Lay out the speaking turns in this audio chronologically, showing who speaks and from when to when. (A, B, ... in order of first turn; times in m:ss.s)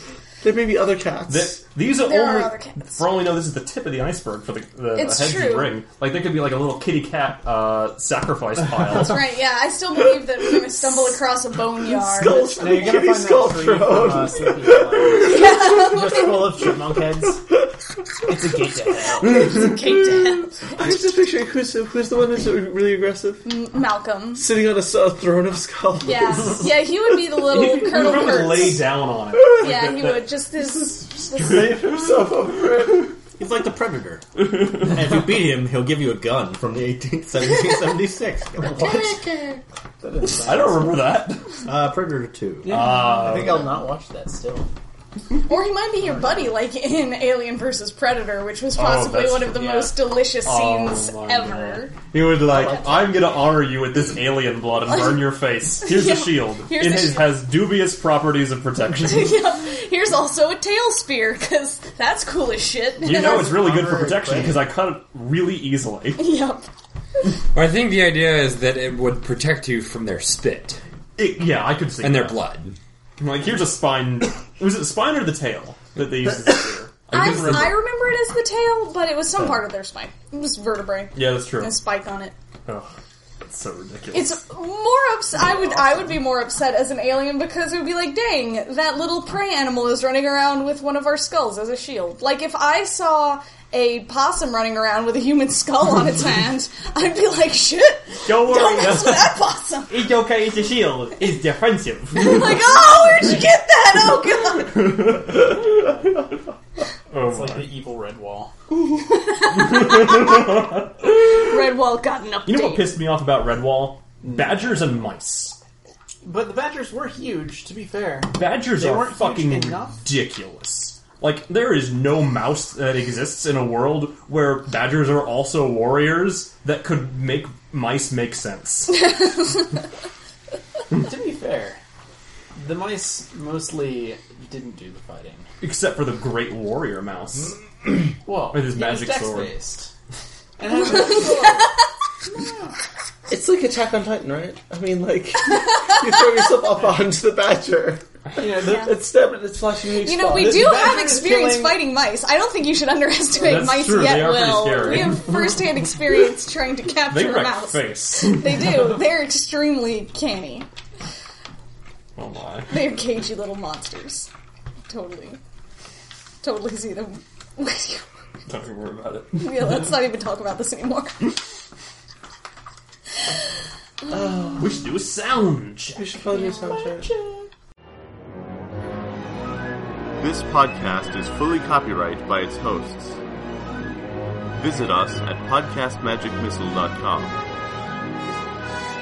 0:00.4-0:01.6 A
0:01.3-0:09.2 B
0:02.0-0:03.1 C
0:05.0-0:05.8 C
0:08.9-0:12.9 C
0:11.9-0:15.5 A
0:12.3-0:17.4 D
0:15.2-0:16.5 C
0:18.3-0:19.5 D
0:19.2-0:20.7 C
0:20.7-0:23.5 A
0:23.4-0:24.5 C
0:24.4-0:26.7 A
0:26.0-0:28.8 C
0:27.4-0:32.2 B
0:29.6-0:31.8 C
0:31.4-0:33.2 A
0:33.4-0:39.2 E
0:34.5-0:34.8 B
0:38.8-0:39.6 C
0:40.0-0:41.0 D
0:40.4-0:41.5 B
0:41.6-0:42.9 E
0:42.6-0:44.7 D
0:42.7-0:43.9 B
0:45.4-0:52.0 C
0:46.1-0:46.5 D
0:48.8-0:49.6 B
0:49.6-0:49.9 D
0:50.4-0:59.4 B
0:52.5-0:53.2 C
0:55.8-0:57.4 C
0:59.0-1:03.6 C
1:03.0-1:06.2 B
1:03.0-1:04.7 D
1:06.2-1:06.7 C
1:07.5-1:10.8 F
1:11.2-1:12.4 B
1:12.0-1:12.8 F
1:13.2-1:17.8 B
1:17.1-1:22.4 C
1:21.1-1:21.8 B
1:23.4-1:24.4 B
1:24.1-1:40.0 C
1:38.2-1:39.4 B
1:39.9-1:43.0 B
1:42.1-1:45.0 C
1:44.7-1:46.2 B
1:47.1-1:47.7 B
1:47.2-1:48.5 D
1:49.0-1:53.0 C
1:49.4-1:51.6 B
1:52.5-1:55.6 B
1:56.2-2:00.0 D
1:58.3-2:09.1 B
2:09.0-2:09.7 C
2:10.9-2:11.8 D
2:12.6-2:15.5 D
2:15.6-2:17.9 B
2:18.2-2:19.9 D
2:18.5-2:19.6 B
2:20.6-2:21.8 D
2:21.0-2:21.6 C
2:23.3-2:30.7 A
2:28.4-2:29.0 D
2:28.6-2:29.0 C
2:30.0-2:40.7 C
2:30.3-2:31.8 D
2:33.4-2:35.3 B
2:37.1-2:38.6 B
2:42.2-2:42.7 B
2:42.7-2:44.3 C
2:44.9-2:45.4 C
2:46.4-2:48.1 C
2:48.5-2:49.7 B
2:49.4-2:51.4 C
2:54.1-2:54.7 A
2:54.6-2:56.1 B
2:55.9-2:57.1 A
3:00.2-3:02.6 G
3:05.3-3:06.0 G
3:06.7-3:07.2 G